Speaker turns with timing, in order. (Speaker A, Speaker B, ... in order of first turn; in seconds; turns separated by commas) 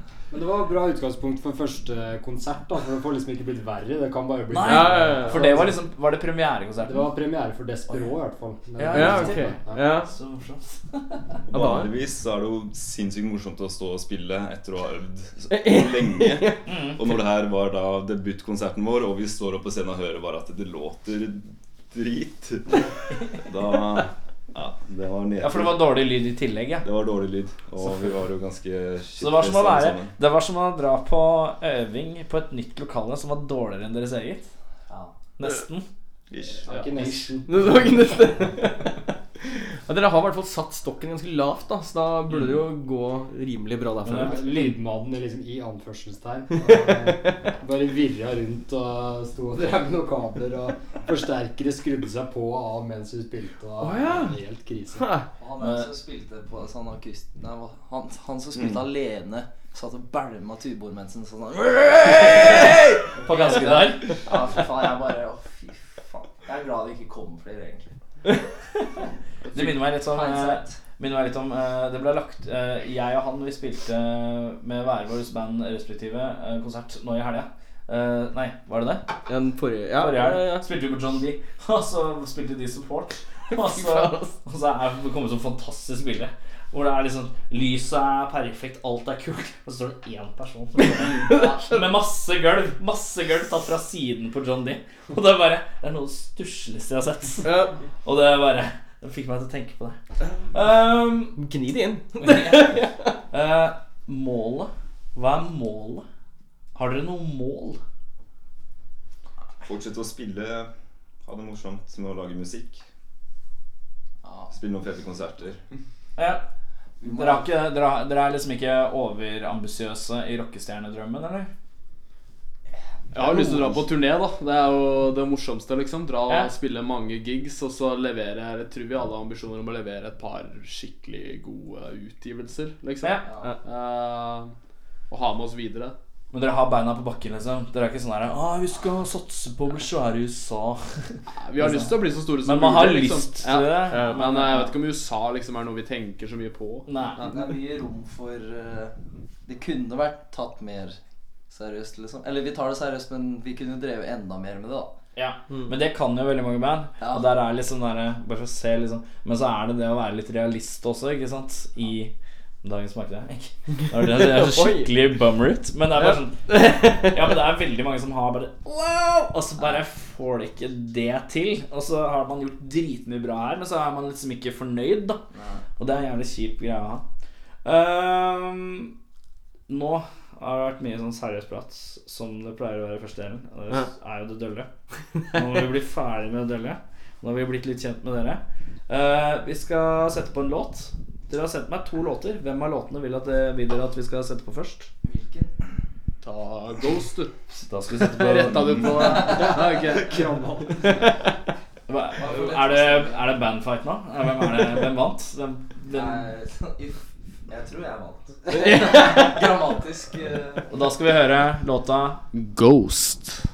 Speaker A: 0.3-5.8, Speaker B: 4.5-7.0, Speaker C: 4.7-5.7, Speaker A: 6.8-10.0, Speaker B: 8.8-11.2, Speaker C: 8.9-10.1, Speaker D: 11.5-25.9, Speaker C: 11.5-11.9, Speaker C: 15.5-16.6, Speaker B: 16.7-17.0, Speaker B: 25.4-26.9, Speaker D: 26.8-30.2, Speaker B: 29.2-34.5, Speaker E: 34.9-35.1, Speaker B: 35.4-35.9, Speaker D: 36.3-36.6, Speaker A: 36.7-37.6, Speaker B: 36.7-37.3, Speaker C: 37.5-39.0, Speaker C: 39.9-44.6, Speaker B: 44.0-44.8, Speaker A: 44.3-55.2, Speaker C: 46.6-47.4, Speaker C: 53.8-54.4, Speaker C: 55.0-55.2, Speaker E: 55.3-67.9, Speaker B: 55.6-55.9, Speaker B: 62.0-64.2, Speaker B: 69.5-79.1, Speaker E: 70.1-70.8, Speaker C: 79.3-80.7, Speaker B: 80.0-100.0, Speaker C: 83.5-84.3, Speaker C: 90.8-91.9, Speaker C: 97.4-97.8, Speaker B: 100.5-101.4, Speaker C: 101.4-103.1, Speaker B: 102.2-106.0, Speaker B: 106.8-107.8, Speaker D: 109.6-110.7, Speaker D: 111.2-112.8, Speaker E: 114.2-114.5, Speaker D: 114.5-115.6, Speaker B: 116.2-116.4, Speaker E: 117.0-117.5, Speaker B: 117.0-121.5, Speaker F: 123.1-134.5, Speaker E: 133.2-133.5, Speaker F: 135.1-136.0, Speaker B: 136.3-144.8, Speaker F: 141.4-147.4, Speaker C: 143.9-144.2, Speaker B: 146.9-147.2, Speaker E: 147.2-148.9, Speaker E: 149.5-151.0, Speaker E: 151.5-154.9, Speaker B: 155.2-175.2, Speaker E: 157.0-157.3, Speaker C: 163.9-164.9, Speaker C: 165.9-167.2, Speaker E: 175.3-175.6, Speaker B: 175.8-177.1, Speaker B: 177.7-178.9, Speaker B: 179.7-184.7, Speaker B: 185.3-194.9, Speaker E: 195.0-195.5, Speaker F: 196.2-197.3, Speaker B: 197.5-199.3, Speaker F: 198.0-200.1, Speaker E: 199.0-200.6, Speaker B: 201.9-206.3, Speaker E: 202.1-203.3, Speaker E: 205.9-210.7, Speaker B: 210.7-212.2, Speaker F: 212.3-213.4